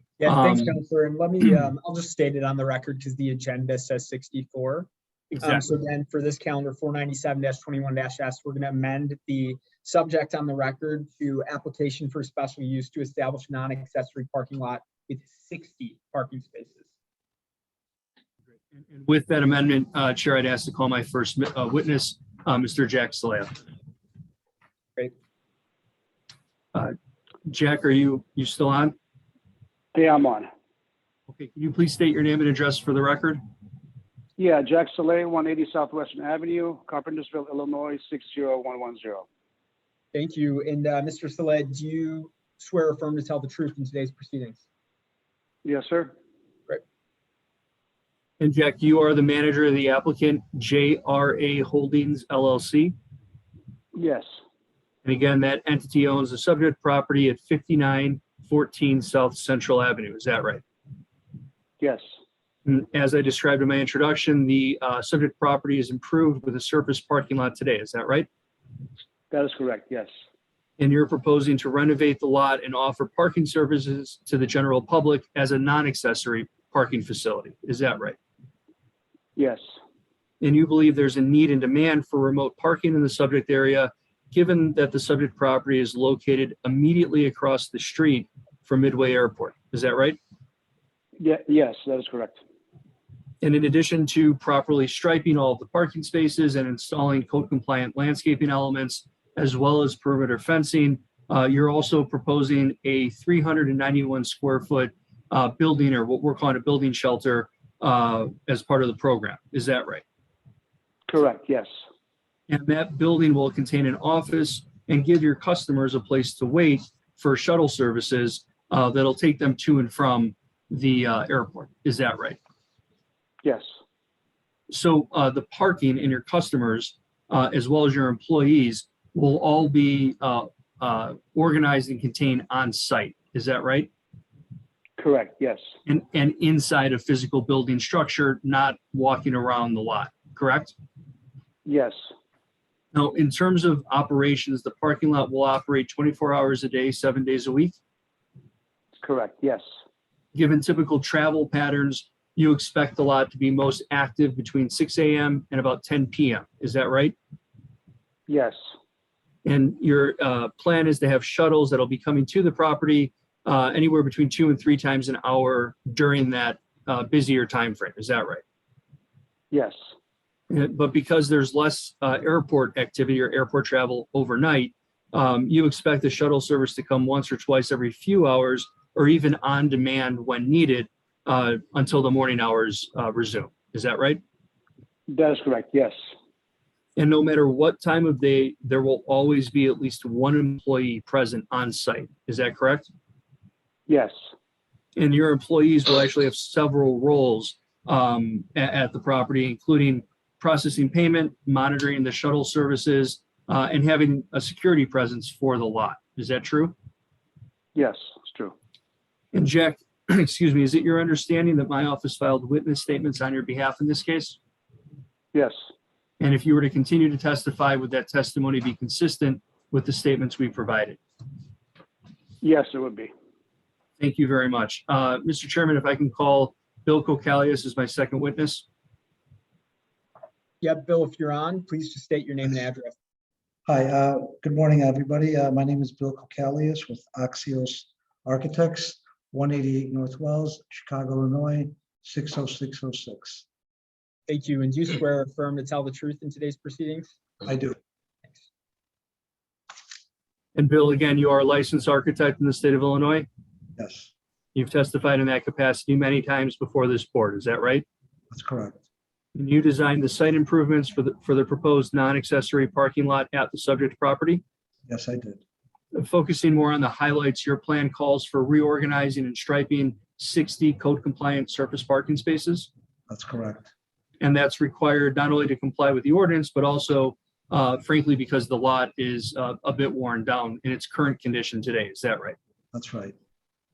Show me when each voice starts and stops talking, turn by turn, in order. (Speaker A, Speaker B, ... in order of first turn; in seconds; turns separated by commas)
Speaker A: 0.2-16.8, Speaker B: 0.2-0.7, Speaker B: 5.3-5.7, Speaker B: 18.8-23.5, Speaker B: 27.5-28.9, Speaker C: 29.9-30.5, Speaker B: 31.3-33.4, Speaker C: 34.4-39.2, Speaker A: 40.1-44.6, Speaker C: 45.6-46.1, Speaker B: 48.4-52.9, Speaker C: 53.9-54.3, Speaker B: 55.0-60.6, Speaker C: 61.8-62.0, Speaker B: 62.6-68.3, Speaker C: 69.3-70.1, Speaker B: 70.8-78.2, Speaker C: 79.3-79.6, Speaker B: 80.4-90.2, Speaker C: 91.2-92.3, Speaker B: 93.4-110.0, Speaker C: 111.1-111.7, Speaker B: 112.5-122.4, Speaker B: 124.7-133.9, Speaker C: 135.0-135.6, Speaker B: 135.8-140.7, Speaker C: 141.7-142.0, Speaker B: 142.9-147.8, Speaker C: 149.0-149.6, Speaker B: 150.3-157.1, Speaker C: 158.3-158.6, Speaker B: 159.4-168.4, Speaker C: 169.5-169.8, Speaker B: 170.5-184.2, Speaker C: 185.1-185.9, Speaker B: 186.9-192.9, Speaker C: 193.9-194.1, Speaker B: 194.9-206.7, Speaker C: 207.7-208.5, Speaker B: 209.3-214.4, Speaker B: 216.2-221.0, Speaker C: 222.4-223.1, Speaker B: 224.0-228.6, Speaker A: 230.6-232.9, Speaker D: 233.7-243.4, Speaker A: 244.3-247.1, Speaker D: 247.4-247.8, Speaker B: 250.5-253.3, Speaker D: 253.8-254.1, Speaker B: 254.5-257.8, Speaker D: 258.3-258.8, Speaker B: 259.3-264.4, Speaker D: 264.9-265.4, Speaker B: 265.9-272.7, Speaker D: 273.1-273.7, Speaker B: 274.2-282.4, Speaker D: 282.7-283.1